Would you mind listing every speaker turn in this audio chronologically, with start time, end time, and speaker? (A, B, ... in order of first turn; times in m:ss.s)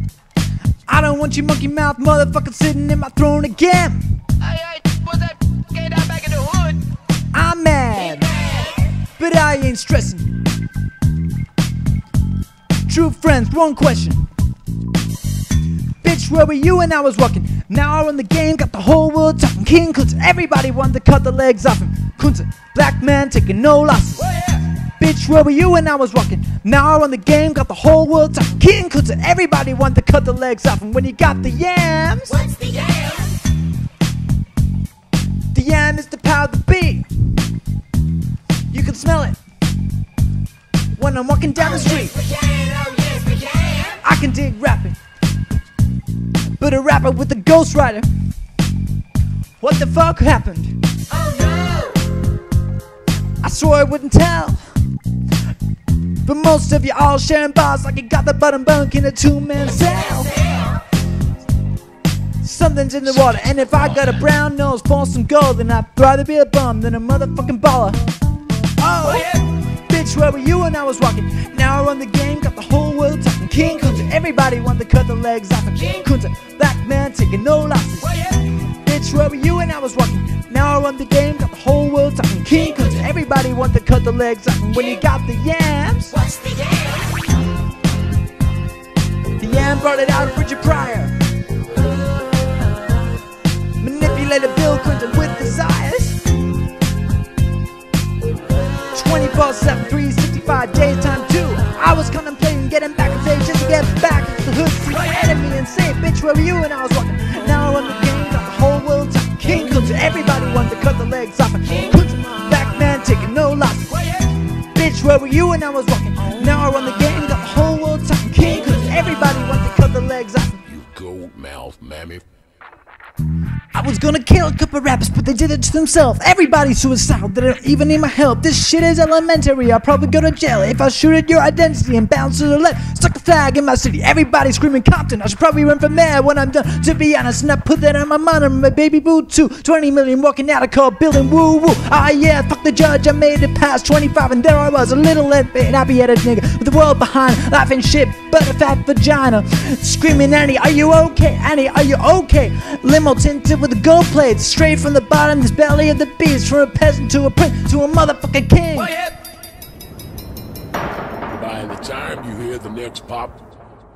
0:00.9-0:04.2 A
0:04.4-0:06.8 B
0:07.3-0:08.4 A
0:09.2-0:10.4 A
0:12.9-0:14.3 A
0:16.0-0:32.6 A
0:35.5-0:37.1 A
0:38.7-0:39.4 A
0:41.0-0:42.3 A
0:42.7-0:43.4 B
0:43.8-0:45.0 A
0:46.6-0:48.1 A
0:49.6-0:50.8 A
0:53.4-0:54.6 A
0:56.2-1:00.5 A
1:02.4-1:08.0 A
1:08.8-1:26.3 A
1:29.4-1:31.2 A
1:33.8-1:36.2 A
1:38.9-1:54.2 A
1:54.7-2:00.6 A
2:00.7-2:02.2 C
2:03.7-2:39.0 A
2:41.3-2:43.4 C